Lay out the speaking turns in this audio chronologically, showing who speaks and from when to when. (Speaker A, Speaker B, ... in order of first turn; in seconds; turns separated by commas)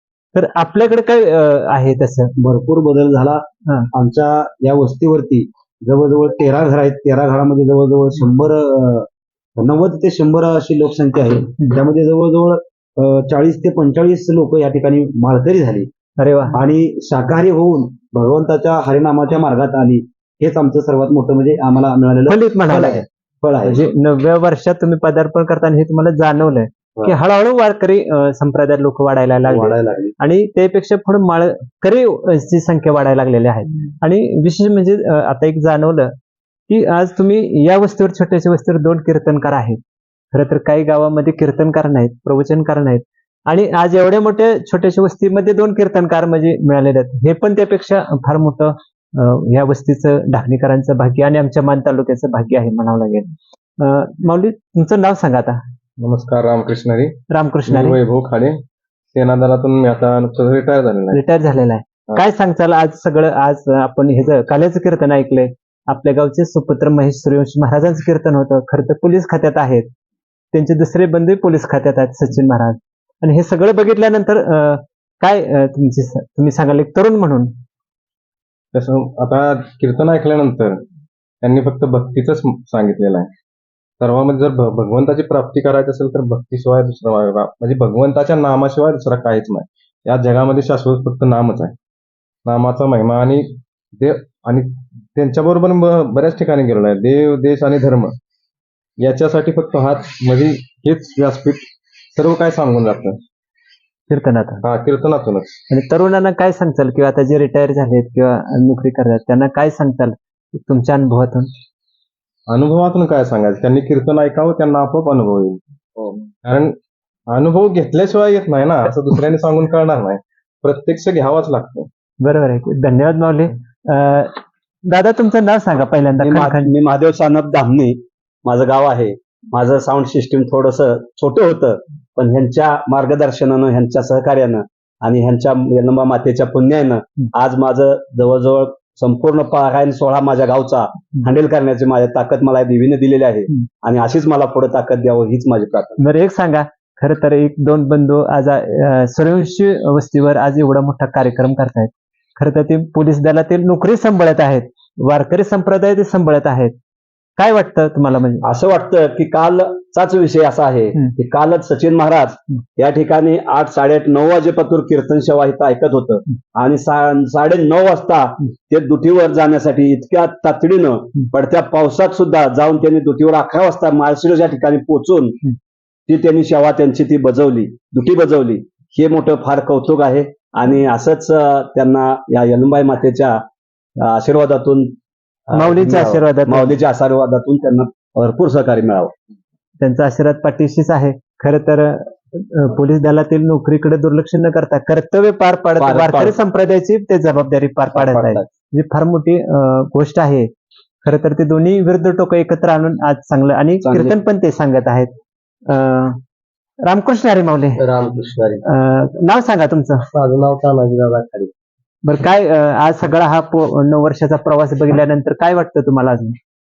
Speaker A: 0.3-2.3, Speaker B: 2.4-15.9, Speaker A: 16.2-16.6, Speaker B: 16.5-23.8, Speaker A: 22.3-23.0, Speaker A: 23.6-36.1, Speaker B: 29.4-30.1, Speaker A: 36.7-39.8, Speaker A: 40.3-53.3, Speaker A: 53.8-55.6, Speaker C: 56.0-58.6, Speaker A: 57.3-58.0, Speaker C: 59.1-61.2, Speaker A: 61.1-69.9, Speaker A: 70.5-77.5, Speaker C: 78.7-80.8, Speaker C: 81.4-83.3, Speaker C: 84.0-91.7, Speaker C: 92.5-98.2, Speaker C: 99.0-103.2, Speaker A: 104.1-104.6, Speaker C: 104.6-105.5, Speaker A: 105.7-111.5, Speaker C: 112.5-116.8, Speaker C: 117.3-121.9, Speaker A: 122.2-126.7, Speaker B: 126.2-146.0, Speaker A: 146.0-156.7, Speaker A: 157.4-158.4, Speaker B: 158.4-175.4, Speaker B: 176.1-183.4, Speaker B: 184.0-184.9, Speaker B: 185.5-189.1, Speaker A: 185.5-186.7, Speaker A: 189.8-200.5, Speaker B: 195.8-196.4, Speaker B: 197.9-198.5, Speaker A: 201.0-205.1, Speaker A: 205.7-206.2, Speaker A: 206.8-207.8, Speaker D: 207.8-208.6, Speaker A: 208.6-210.1, Speaker D: 210.2-211.5, Speaker A: 212.0-216.3